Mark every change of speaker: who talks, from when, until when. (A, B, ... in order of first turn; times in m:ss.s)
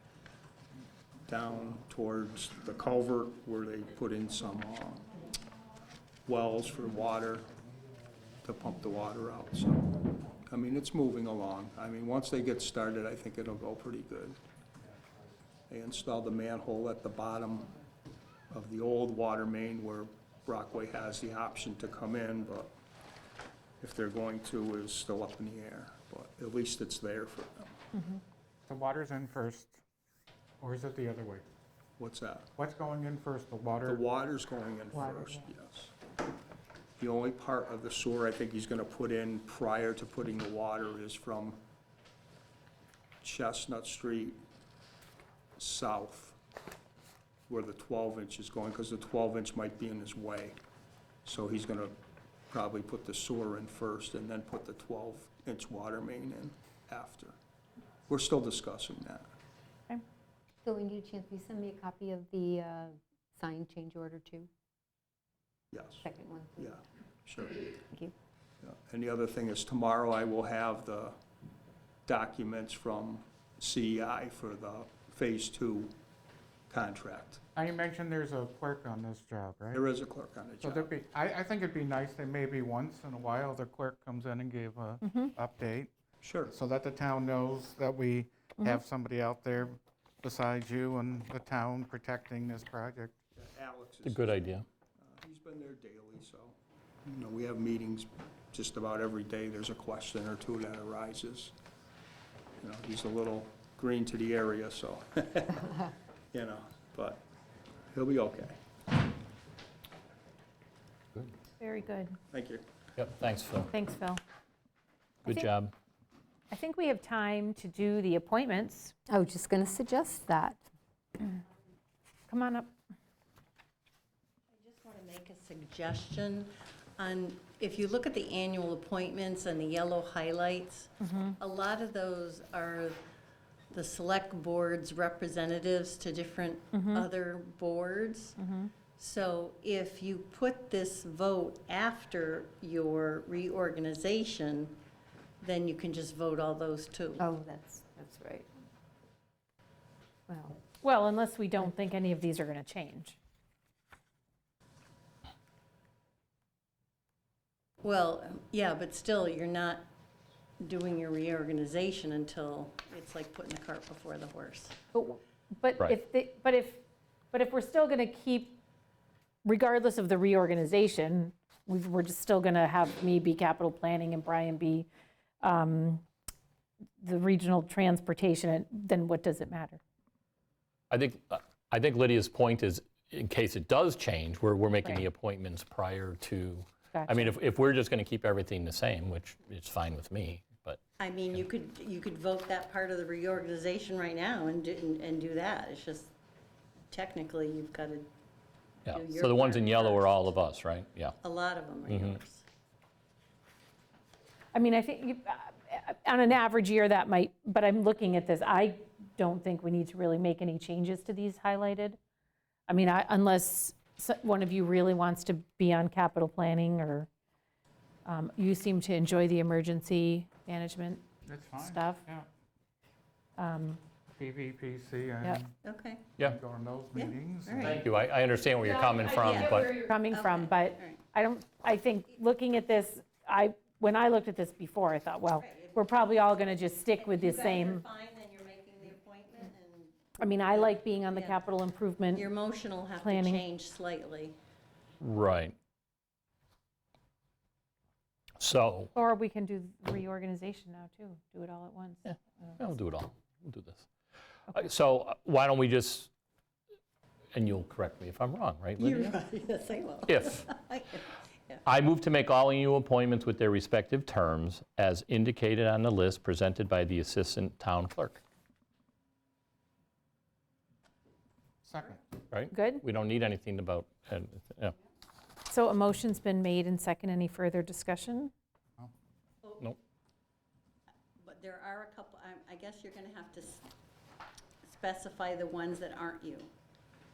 0:01.2-0:05.0 A
0:06.2-0:07.5 A
0:08.4-0:14.4 A
0:15.7-0:17.7 A
0:18.5-0:22.7 A
0:23.8-0:27.8 A
0:28.7-0:29.8 B
0:30.6-0:31.4 B
0:32.0-0:32.5 A
0:32.6-0:34.0 B
0:33.8-0:35.9 A
0:37.0-0:41.6 A
0:43.2-0:44.4 A
0:45.6-0:46.4 A
0:47.5-0:50.6 A
0:51.2-0:52.0 A
0:52.5-0:57.3 A
0:58.1-0:59.3 A
1:00.6-1:04.5 C
1:05.7-1:06.0 A
1:06.0-1:06.8 C
1:06.6-1:07.6 A
1:08.6-1:11.2 A
1:12.0-1:15.9 A
1:16.7-1:17.4 A
1:17.6-1:19.8 B
1:19.7-1:20.9 A
1:20.6-1:25.9 B
1:25.0-1:25.3 D
1:26.2-1:26.5 A
1:26.5-1:33.1 B
1:33.4-1:34.4 A
1:34.0-1:34.6 E
1:35.0-1:41.5 A
1:42.6-1:47.2 A
1:47.9-1:48.6 A
1:51.6-1:52.2 D
1:52.3-1:52.6 A
1:53.0-1:53.7 E
1:53.7-1:54.2 D
1:55.2-1:55.7 E
1:56.5-1:59.0 D
1:59.1-2:00.6 C
2:02.3-2:02.7 D
2:04.5-2:13.0 F
2:11.0-2:11.4 D
2:13.7-2:18.4 F
2:16.7-2:17.1 D
2:18.4-2:18.7 D
2:18.9-2:24.8 F
2:25.4-2:27.2 F
2:27.2-2:28.5 C
2:30.3-2:30.6 C
2:30.8-2:33.2 D
2:37.8-2:39.9 F
2:40.6-2:44.8 F
2:44.9-2:48.6 D
2:49.4-2:54.9 D
2:55.4-2:56.0 D
2:57.0-2:59.8 D
3:00.9-3:10.8 E
3:06.9-3:07.3 D
3:11.0-3:16.1 F
3:16.9-3:18.1 F
3:18.9-3:21.1 E
3:18.9-3:20.3 F
3:21.2-3:22.4 F
3:21.9-3:22.2 E
3:24.5-3:32.0 D
3:32.7-3:37.1 D
3:38.0-3:41.0 D
3:41.2-3:42.3 B
3:41.6-3:42.0 D
3:43.4-3:43.8 D
3:44.2-3:45.5 B
3:45.6-3:46.1 F
3:46.2-3:47.8 B
3:46.9-3:47.8 F
3:47.6-3:49.8 E
3:48.6-3:57.8 D
3:49.1-3:51.0 F
3:55.4-4:01.4 F
4:00.2-4:02.4 D
4:02.1-4:04.4 F
4:03.0-4:03.4 D
4:05.0-4:05.5 E
4:08.4-4:08.9 E
4:08.9-4:12.6 D
4:12.0-4:13.9 E
4:14.5-4:16.1 E
4:17.3-4:19.2 E
4:18.8-4:21.6 F
4:20.1-4:20.5 E
4:21.6-4:28.2 E
4:31.6-4:32.0 B
4:32.3-4:34.7 E
4:32.5-4:32.8 D
4:35.5-4:38.3 D
4:41.2-4:43.7 F
4:44.6-4:46.5 F